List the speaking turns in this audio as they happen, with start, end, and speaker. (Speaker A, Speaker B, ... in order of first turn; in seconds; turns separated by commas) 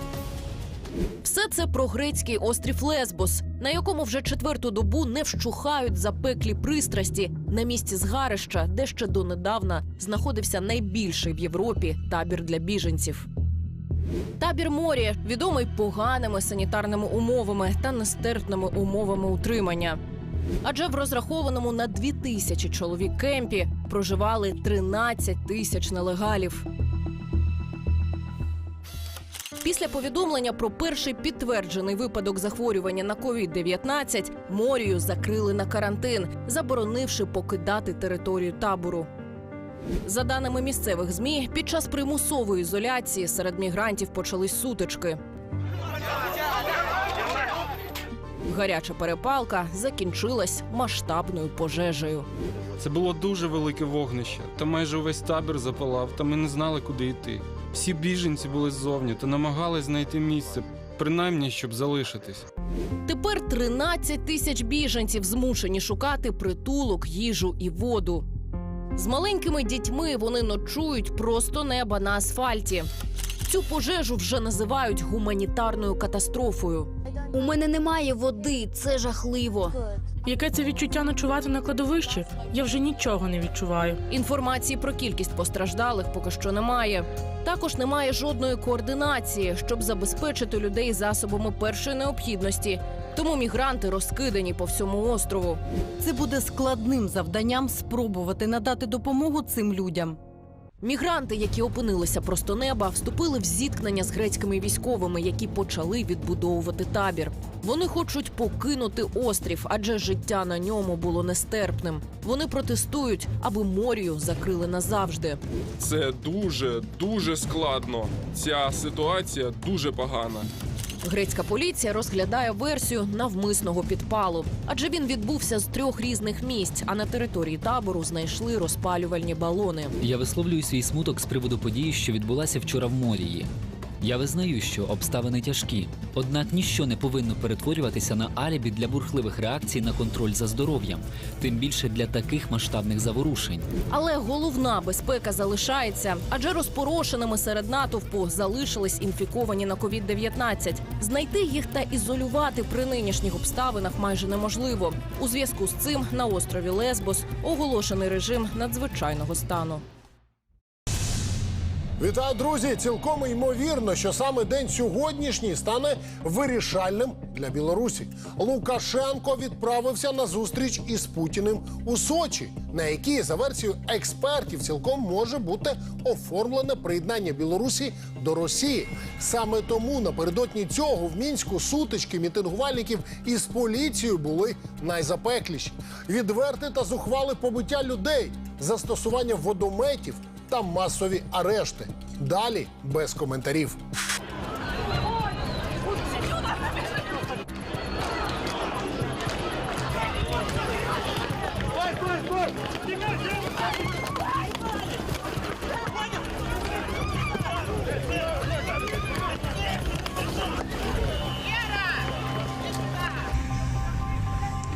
Speaker A: 1.2-13.3, Speaker A: 14.4-20.0, Speaker A: 20.6-26.6, Speaker A: 29.6-39.1, Speaker A: 40.0-45.2, Speaker A: 48.5-52.3, Speaker B: 52.8-62.5, Speaker A: 63.1-68.3, Speaker A: 69.0-72.9, Speaker A: 73.5-76.9, Speaker C: 77.3-79.8, Speaker D: 80.3-84.0, Speaker A: 84.1-95.6, Speaker E: 96.0-99.4, Speaker C: 98.9-99.6, Speaker A: 100.8-115.4, Speaker F: 115.8-120.5, Speaker A: 121.0-129.9, Speaker G: 130.1-133.5, Speaker G: 134.0-143.7, Speaker A: 143.9-159.8, Speaker H: 162.0-193.8